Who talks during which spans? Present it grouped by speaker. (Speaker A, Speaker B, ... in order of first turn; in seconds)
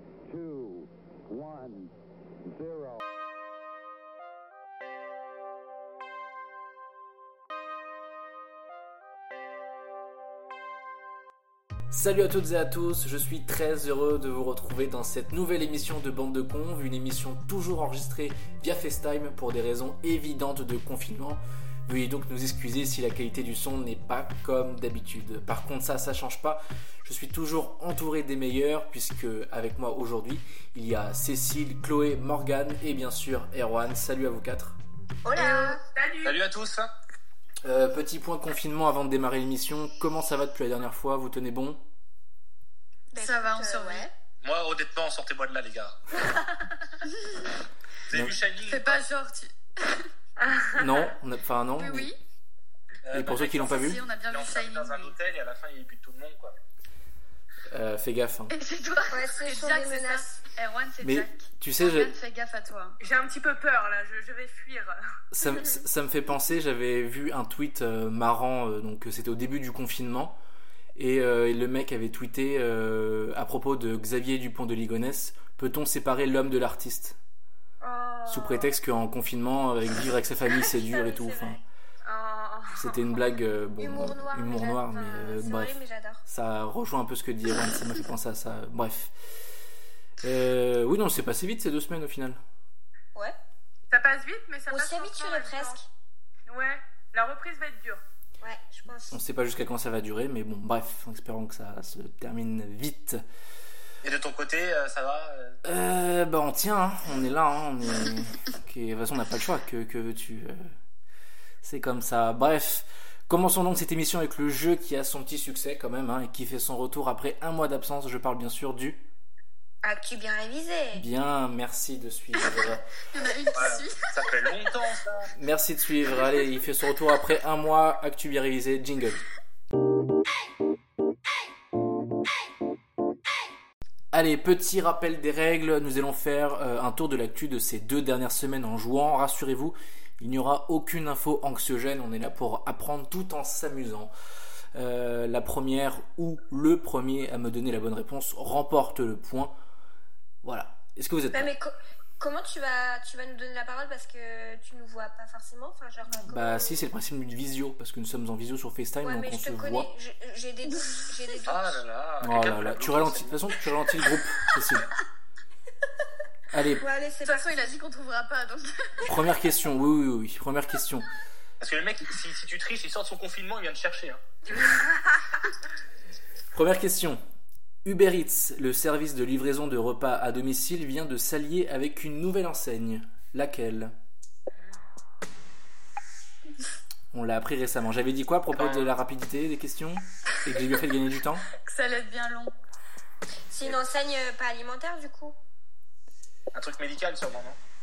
Speaker A: 0.3-1.9, 2.4-3.0
Speaker B: 11.9-34.8, 37.6-41.8, 50.7-52.1, 53.1-54.0, 57.7-58.5, 61.0-62.1, 65.3-70.4, 71.0-77.2, 78.3-81.6, 82.7-89.1, 90.2-92.4, 99.1-103.2, 105.6-110.6, 111.6-119.0, 120.9-122.9, 125.3-129.2, 134.1-144.1, 144.7-149.5, 150.4-151.5, 156.3-159.9, 162.2-164.9, 166.5-166.8, 169.1-171.1, 176.5-177.2, 177.8-183.9, 187.1-191.4
Speaker C: 35.2-35.8, 43.1-44.1, 59.1-60.4, 77.8-78.7, 80.6-81.6, 83.8-86.2, 94.7-95.9, 98.4-99.2, 119.8-121.0, 151.3-156.9, 159.0-161.8, 166.8-167.8, 193.5-195.3
Speaker D: 35.3-35.8, 43.2-44.1, 47.1-47.5, 48.6-50.1, 51.8-52.1, 53.3-55.1, 58.5-63.0, 123.1-124.5, 167.2-169.1, 191.6-192.5
Speaker E: 35.9-36.4, 50.4-51.1, 63.0-65.0, 82.0-83.1, 93.9-95.8, 96.5-98.0
Speaker F: 36.2-36.9, 44.4-46.0, 48.1-49.0, 53.0-53.5, 54.1-56.5, 104.0-105.6, 123.5-125.3, 161.4-163.5, 171.6-174.2, 188.6-188.9, 196.5-197.6